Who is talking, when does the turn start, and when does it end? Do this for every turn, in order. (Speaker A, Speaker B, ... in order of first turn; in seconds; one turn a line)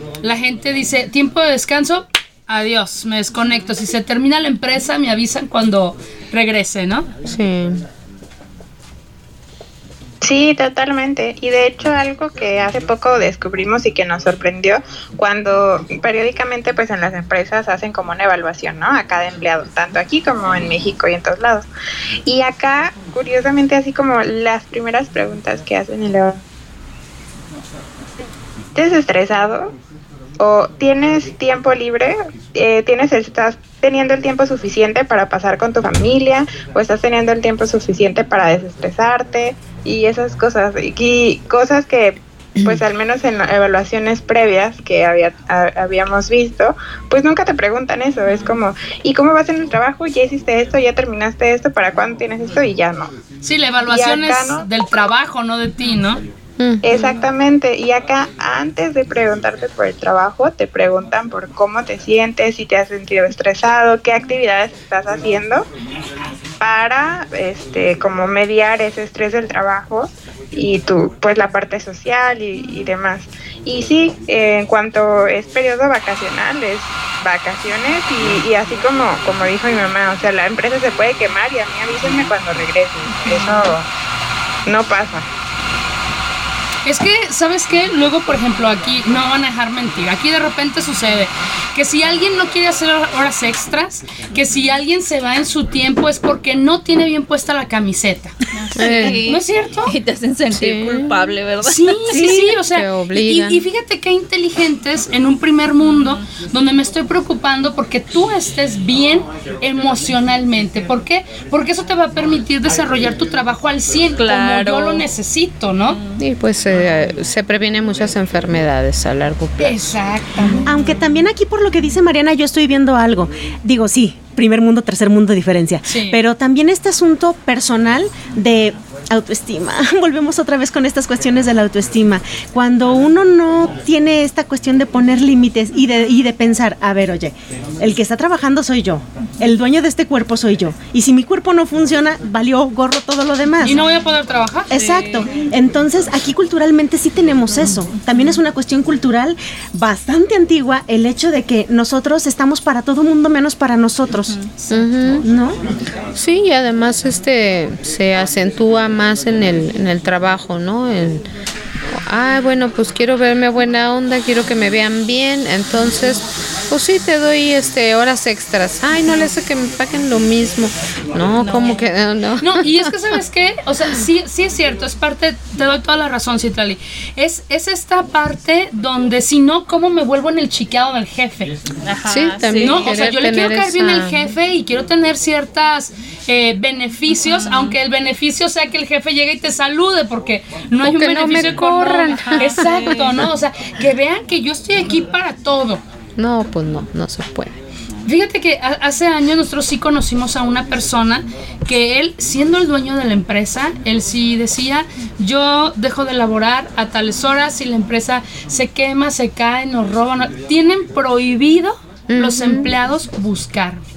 Speaker A: 0.2-7.1
Speaker B: 7.3-7.8
Speaker C: 10.2-21.7
Speaker C: 22.3-26.4
Speaker C: 28.8-29.7
Speaker C: 30.4-53.1
Speaker A: 53.4-56.2
Speaker C: 53.9-54.6
Speaker C: 56.8-65.7
Speaker C: 66.6-83.9
Speaker A: 83.3-83.6
Speaker C: 84.7-85.3
Speaker A: 86.8-99.9
Speaker D: 98.6-102.4
Speaker B: 98.8-99.3
Speaker B: 100.5-101.1
Speaker A: 101.6-116.0
Speaker B: 102.1-103.7
Speaker D: 114.2-115.1
Speaker D: 115.9-116.2
Speaker B: 116.2-119.8
Speaker A: 119.6-120.7
Speaker E: 120.7-143.8
Speaker A: 125.9-126.2
Speaker A: 143.6-144.7
Speaker E: 144.7-154.4
Speaker D: 144.7-145.3
Speaker B: 154.7-155.3
Speaker E: 155.2-155.6
Speaker B: 156.2-161.2
Speaker B: 161.9-172.9
Speaker D: 171.4-171.8
Speaker A: 172.4-181.5
Speaker D: 181.9-183.0
Speaker B: 182.1-184.2
Speaker A: 182.5-195.8
Speaker D: 187.2-187.7
Speaker B: 190.8-193.1
Speaker D: 192.1-193.0
Speaker B: 196.2-197.6
Speaker A: 198.1-213.8
Speaker B: 212.1-212.7